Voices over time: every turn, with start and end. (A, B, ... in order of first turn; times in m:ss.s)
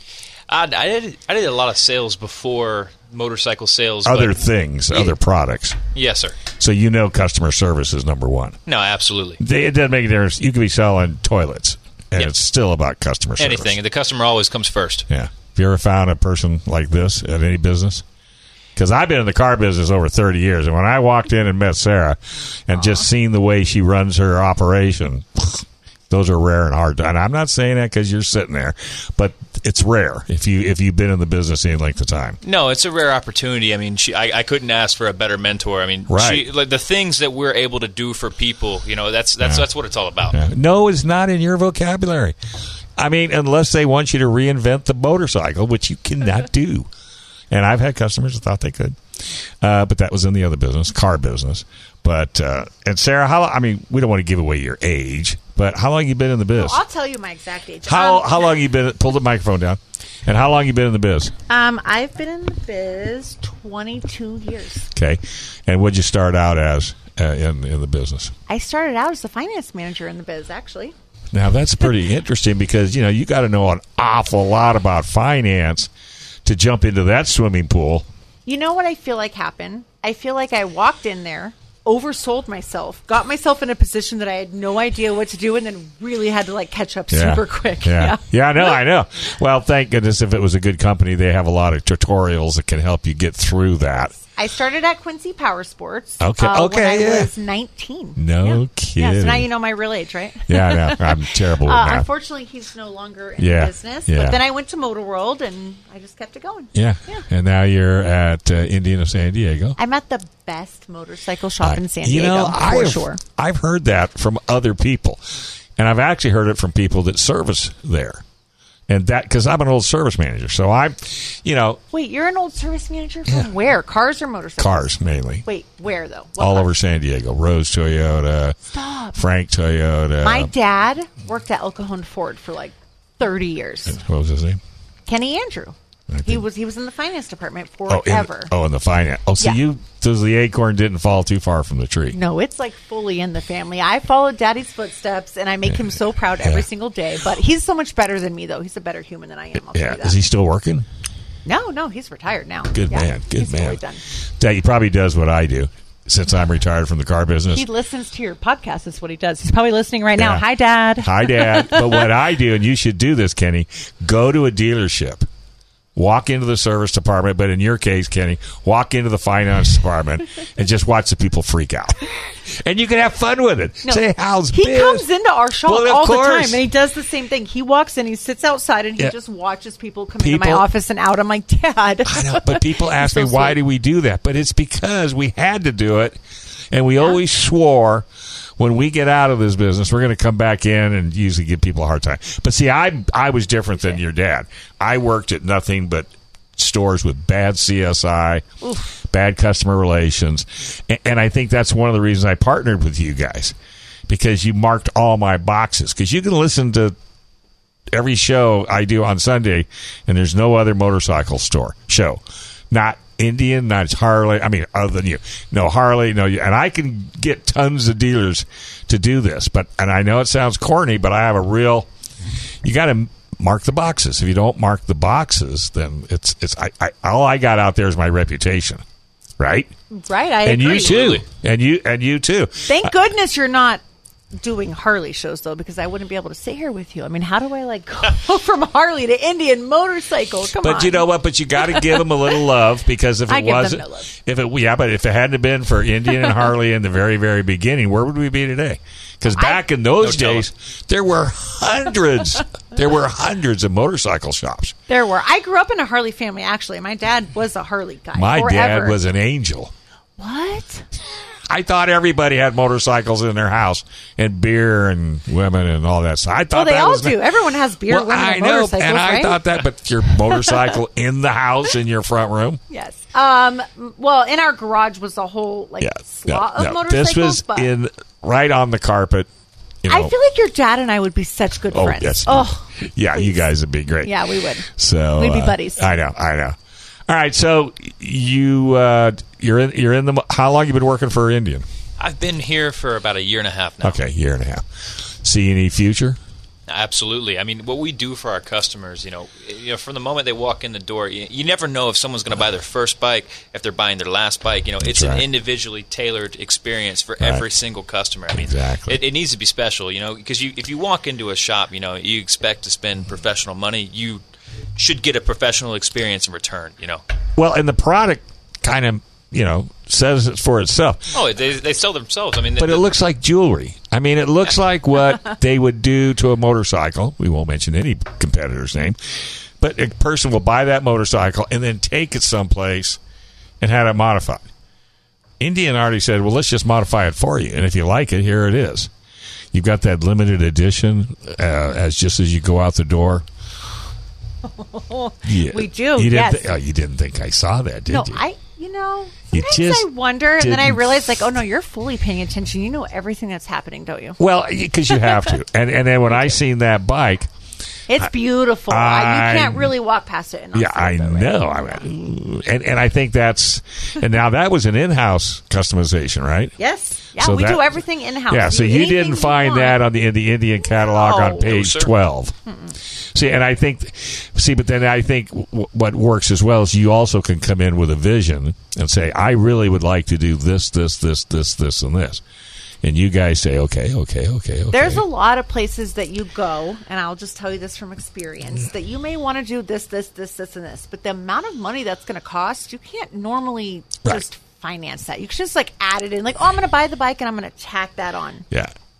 0:00.5-0:05.1 A
0:04.0-0:05.8 B
0:05.9-0:06.4 A
0:06.6-0:08.6 B
0:08.7-0:09.4 A
0:09.4-0:13.8 B
0:13.4-0:15.0 A
0:15.1-0:18.0 B
0:18.8-0:32.4 B
0:22.8-0:23.0 C
0:32.4-0:40.4 A
0:36.1-0:36.4 B
0:39.4-0:39.6 B
0:40.3-0:42.4 B
0:43.0-0:46.9 B
0:47.5-0:49.0 B
0:49.6-0:56.8 B
0:56.5-0:58.5 C
0:57.8-1:01.3 B
1:01.5-1:04.9 C
1:04.9-1:08.3 B
1:08.5-1:10.9 C
1:11.3-1:15.9 B
1:16.4-1:18.1 B
1:18.4-1:28.8 C
1:27.1-1:34.1 B
1:34.2-1:47.2 C
1:36.2-1:37.3 B
1:38.2-1:39.5 B
1:40.5-1:42.1 B
1:43.4-1:44.4 B
1:46.7-1:49.8 B
1:49.8-1:53.2 C
1:51.6-1:55.2 B
1:55.8-1:58.2 B
1:58.9-2:01.8 B
2:01.9-2:06.7 C
2:04.6-2:05.4 B
2:06.4-2:08.6 B
2:08.7-2:09.2 C
2:09.1-2:10.5 B
2:10.2-2:14.0 C
2:13.8-2:14.6 B
2:15.0-2:18.5 C
2:16.1-2:16.4 B
2:17.9-2:22.2 B
2:22.1-2:30.2 C
2:29.6-2:30.9 B
2:31.4-2:34.0 C
2:32.7-2:33.8 B
2:34.4-2:37.7 B
2:37.5-2:42.1 C
2:40.2-2:40.4 B
2:41.0-2:45.2 B
2:45.9-2:55.0 B
2:53.8-3:03.6 C
2:55.6-2:56.6 B
3:00.2-3:00.6 B
3:02.0-3:06.2 B
3:06.7-3:08.1 B
3:08.6-3:18.4 B
3:18.6-3:19.0 C
3:19.0-3:23.5 B
3:24.1-3:27.0 B
3:27.9-3:41.9 B
3:42.6-3:48.8 B
3:49.4-3:49.7 B
3:49.9-3:51.1 C
3:50.4-3:52.9 B
3:50.6-3:51.2 A
3:52.6-3:53.8 C
3:54.3-4:02.4 C
4:00.6-4:14.8 B
4:03.3-4:04.1 C
4:09.3-4:09.6 C
4:10.0-4:10.5 A
4:14.9-4:19.0 C
4:18.1-4:19.7 B
4:20.2-4:20.8 C
4:21.5-4:27.2 B
4:26.5-4:29.6 C
4:27.9-4:32.6 B
4:30.1-4:30.7 C
4:32.7-4:37.7 C
4:35.8-4:39.3 B
4:39.8-4:40.1 B
4:39.9-4:43.4 C
4:41.7-4:46.6 B
4:44.0-4:45.9 C
4:47.1-4:51.6 B
4:52.0-4:54.0 A
4:53.8-4:54.6 B
4:55.2-4:56.2 B
4:56.7-5:14.2 A
5:04.8-5:05.2 B
5:07.2-5:07.4 B
5:08.3-5:09.0 B
5:14.8-5:17.0 A
5:17.4-5:21.2 B
5:21.1-5:22.9 A
5:22.6-5:33.0 B
5:33.6-5:34.4 B
5:35.4-5:38.9 B
5:39.5-5:43.2 B
5:44.4-5:46.5 C
5:45.2-5:48.2 B
5:47.9-5:54.2 C
5:49.3-5:51.1 B
5:54.2-5:57.3 B
5:54.9-5:55.2 C
5:57.9-6:01.8 C
5:58.7-5:59.7 B
6:00.5-6:06.6 B
6:06.6-6:09.8 C
6:07.1-6:12.4 B
6:10.8-6:11.5 C
6:11.4-6:11.9 A
6:12.4-6:12.8 C
6:13.1-6:22.2 B
6:22.8-6:25.0 B
6:24.7-6:38.4 C